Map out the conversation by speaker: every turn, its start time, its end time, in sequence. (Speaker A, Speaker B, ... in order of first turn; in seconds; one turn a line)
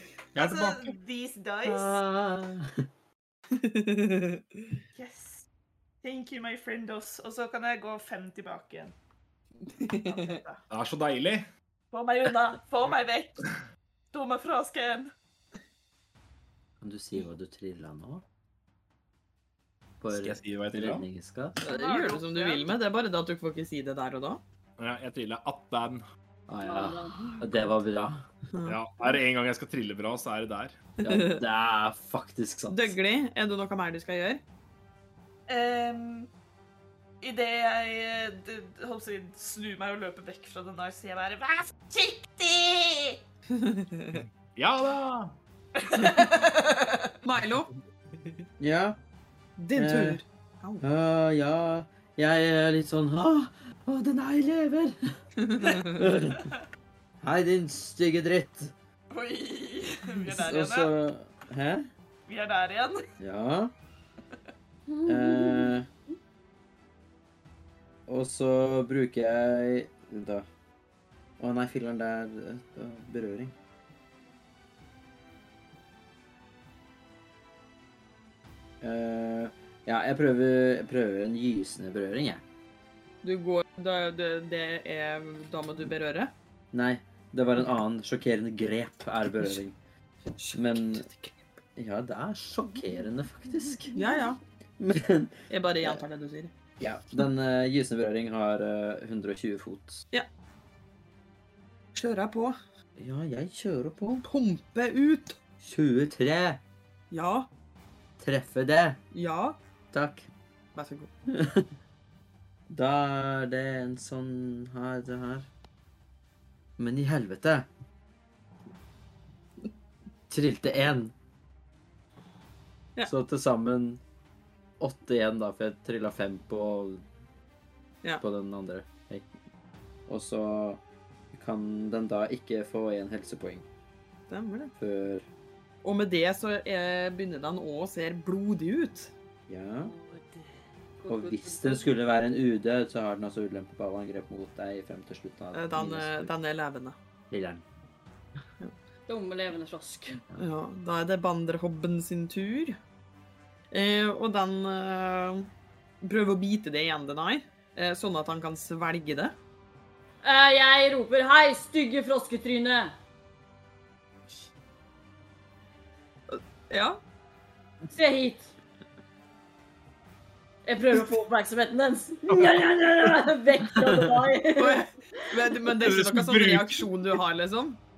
Speaker A: 0.3-0.9
Speaker B: 0.3-2.0
Speaker C: 1.6-2.8
Speaker D: 3.5-4.6
Speaker B: 4.9-5.5
Speaker B: 6.0-8.9
Speaker D: 9.7-10.4
Speaker B: 10.1-10.6
Speaker A: 10.7-11.5
Speaker B: 11.9-13.4
Speaker B: 14.1-15.1
Speaker C: 16.8-18.2
Speaker C: 20.0-21.6
Speaker A: 20.1-21.1
Speaker B: 21.6-22.7
Speaker D: 21.6-24.4
Speaker A: 24.8-26.0
Speaker C: 26.5-28.2
Speaker E: 26.6-27.6
Speaker D: 28.5-28.8
Speaker A: 28.6-30.8
Speaker D: 31.0-31.4
Speaker C: 31.0-33.0
Speaker D: 32.7-34.4
Speaker B: 35.5-36.3
Speaker B: 37.2-43.1
Speaker D: 43.5-44.2
Speaker A: 44.1-45.4
Speaker B: 45.8-47.1
Speaker D: 47.2-47.7
Speaker C: 48.6-49.0
Speaker D: 49.6-50.8
Speaker C: 49.7-50.2
Speaker C: 50.8-55.0
Speaker D: 55.4-56.0
Speaker C: 55.7-56.5
Speaker C: 57.2-58.7
Speaker B: 59.1-60.9
Speaker C: 60.3-61.9
Speaker B: 62.3-63.0
Speaker C: 63.2-63.7
Speaker E: 64.9-65.8
Speaker C: 65.0-65.9
Speaker C: 68.1-70.5
Speaker C: 71.4-73.5
Speaker C: 78.8-82.4
Speaker D: 83.2-86.3
Speaker C: 86.7-89.8
Speaker D: 90.4-91.5
Speaker C: 90.5-91.1
Speaker C: 91.8-94.0
Speaker D: 94.0-94.4
Speaker C: 94.8-96.0
Speaker D: 95.5-96.5
Speaker C: 96.8-100.0
Speaker D: 101.9-102.5
Speaker C: 103.0-104.2
Speaker D: 104.2-105.4
Speaker C: 105.6-106.6
Speaker D: 107.1-107.5
Speaker C: 108.2-109.0
Speaker D: 109.1-109.6
Speaker C: 109.9-110.3
Speaker D: 110.7-111.1
Speaker C: 111.3-111.7
Speaker C: 112.7-115.5
Speaker C: 116.8-117.7
Speaker C: 120.3-121.1
Speaker C: 123.0-124.0
Speaker C: 124.8-127.0
Speaker C: 128.2-129.3
Speaker C: 130.1-133.7
Speaker D: 134.3-134.7
Speaker C: 134.8-135.2
Speaker D: 135.8-139.1
Speaker C: 139.5-139.9
Speaker B: 140.0-140.4
Speaker E: 141.0-142.3
Speaker C: 141.1-146.3
Speaker D: 145.5-146.9
Speaker C: 147.3-147.6
Speaker E: 149.1-150.2
Speaker D: 150.4-152.8
Speaker D: 153.7-155.5
Speaker D: 156.0-159.3
Speaker E: 160.2-162.9
Speaker D: 166.3-167.0
Speaker E: 167.9-168.5
Speaker E: 170.6-174.8
Speaker C: 173.7-174.2
Speaker D: 174.6-177.8
Speaker A: 175.7-176.9